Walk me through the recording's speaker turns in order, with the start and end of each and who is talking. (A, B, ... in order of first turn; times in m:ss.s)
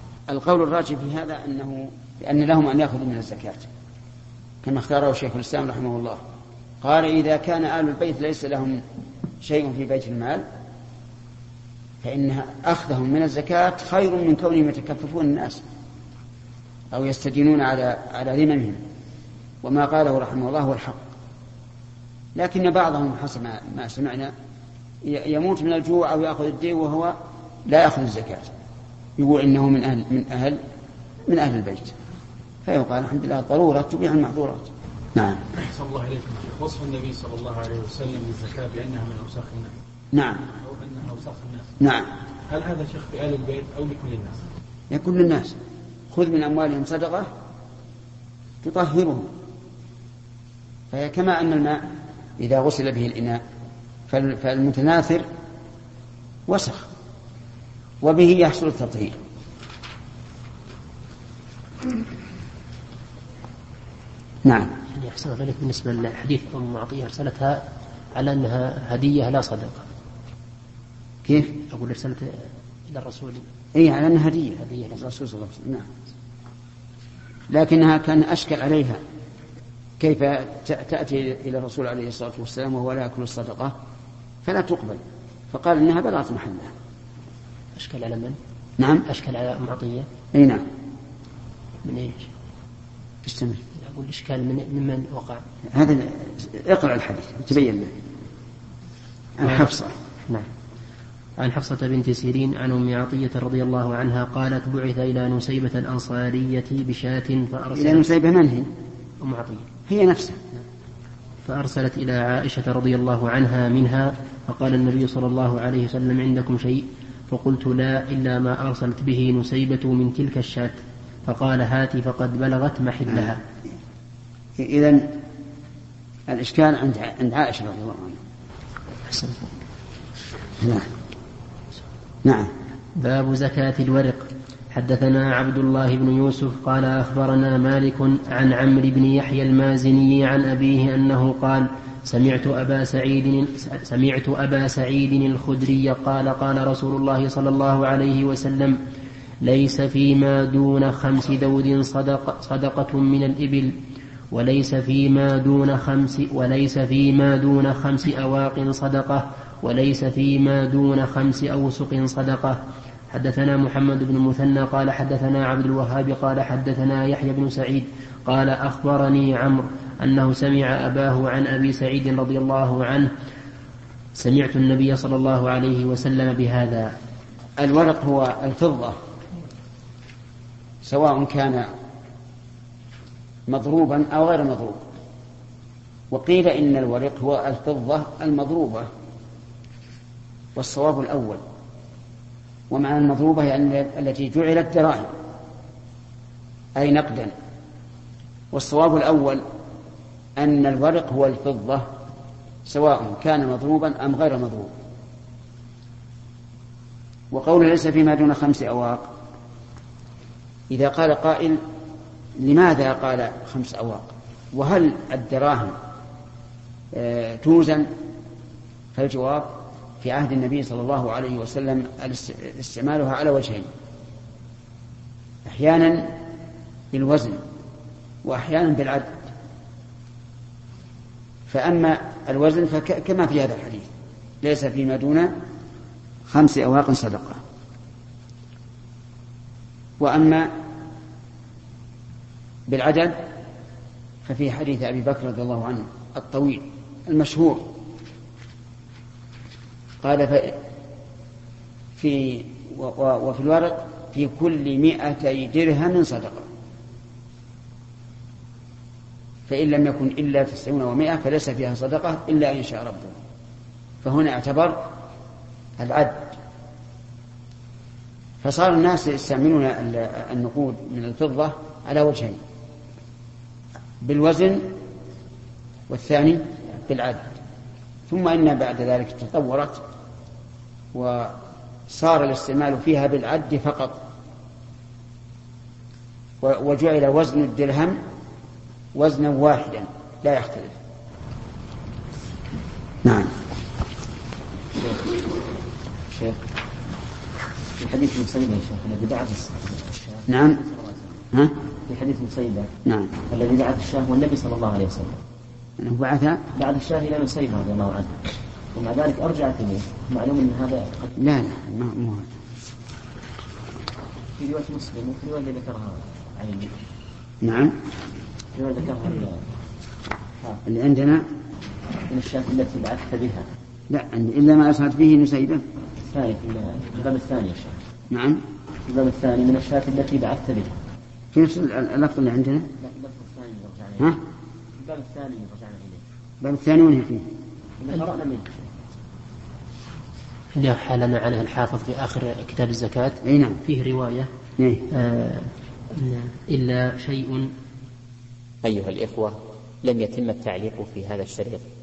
0:00.3-0:03.7 A
0:04.6-0:06.2 A
0:06.8-0:08.8 A
0:09.4-0:10.4 A
0:12.0-0:15.6 A
0:16.9-0:18.8 A
0:19.6-0:21.0 A
0:22.4-0:24.3 A
0:25.0-0:27.2 A
0:27.7-0:28.5 A
0:29.2-0:30.6 A
0:31.3-0:32.0 A
0:32.6-0:35.4 A
0:35.6-0:39.7 B
0:40.1-0:40.4 A
0:40.6-0:41.7 B
0:41.8-0:42.1 A
0:42.5-0:44.4 B
0:44.9-0:45.6 A
0:46.1-0:47.3 A
0:48.6-0:49.3 A
0:50.9-0:51.8 A
0:52.4-0:53.4 A
0:54.1-0:55.3 A
0:56.5-0:56.9 A
0:58.0-0:59.2 A
1:04.4-1:04.7 A
1:05.0-1:07.6 C
1:08.2-1:09.8 C
1:11.2-1:11.5 A
1:11.6-1:13.5 C
1:13.8-1:15.9 A
1:14.6-1:15.0 C
1:17.5-1:19.0 A
1:20.0-1:23.8 A
1:24.4-1:26.7 A
1:27.8-1:28.4 C
1:28.8-1:29.0 A
1:29.1-1:30.1 C
1:30.3-1:30.6 A
1:31.8-1:32.3 C
1:33.2-1:33.6 A
1:33.8-1:35.4 C
1:35.7-1:37.9 A
1:39.4-1:39.9 A
1:39.4-1:39.7 C
1:41.4-1:48.0 C
1:47.7-1:48.7 A
1:49.2-1:49.7 C
1:49.9-1:50.4 A
1:51.5-2:03.4 C
2:04.6-2:05.1 A
2:06.3-2:08.2 A
2:09.1-2:09.5 C
2:10.6-2:10.9 A
2:12.2-2:12.5 A
2:13.0-2:28.8 C
2:29.4-2:33.8 C
2:34.3-2:42.6 C
2:43.1-2:53.1 C
2:54.2-2:56.9 C
2:57.6-2:59.0 A
3:00.8-3:01.7 A
3:03.5-3:04.8 A
3:06.1-3:08.9 A
3:10.6-3:11.4 A
3:12.7-3:15.1 A
3:16.8-3:17.3 A
3:18.5-3:19.4 A
3:20.4-3:21.9 A
3:22.7-3:24.7 A
3:27.3-3:29.1 A
3:30.7-3:31.6 A
3:32.4-3:35.8 A
3:36.9-3:37.9 A
3:39.0-3:43.7 A
3:45.4-3:46.1 A
3:46.9-3:47.4 A
3:48.2-3:49.2 A
3:51.5-3:53.9 A
3:54.4-3:55.3 A
3:56.3-3:57.4 A
4:00.0-4:00.5 A
4:02.7-4:03.2 A
4:04.2-4:07.7 A
4:10.0-4:10.6 A
4:12.0-4:16.5 A
4:19.5-4:23.2 A
4:24.0-4:24.9 A
4:25.8-4:26.4 A
4:28.4-4:32.4 A
4:34.0-4:34.7 A
4:35.9-4:37.3 A
4:38.1-4:39.8 A
4:40.9-4:41.4 A
4:41.9-4:44.0 A
4:46.4-4:48.0 A
4:49.0-4:50.8 A
4:53.0-4:53.3 A
4:54.7-4:55.3 D
4:56.1-4:56.4 D
4:57.8-5:01.2 D
5:00.3-5:00.6 A
5:01.9-5:02.7 D
5:02.9-5:03.2 A
5:03.3-5:05.2 D
5:05.8-5:06.4 A
5:06.5-5:11.2 D
5:11.2-5:12.3 A
5:14.4-5:16.7 D
5:17.4-5:17.8 A
5:18.5-5:19.4 D
5:20.6-5:21.2 A
5:22.1-5:23.5 D
5:23.9-5:25.7 A
5:26.0-5:27.8 D
5:28.1-5:28.4 A
5:28.9-5:30.8 D
5:31.3-5:32.7 A
5:32.8-5:34.2 D
5:34.8-5:36.0 D
5:36.4-5:37.3 A
5:37.8-5:38.7 D
5:40.6-5:44.3 C
5:43.2-5:43.6 A
5:44.6-5:44.8 A
5:44.9-5:47.5 C
5:48.6-5:51.7 E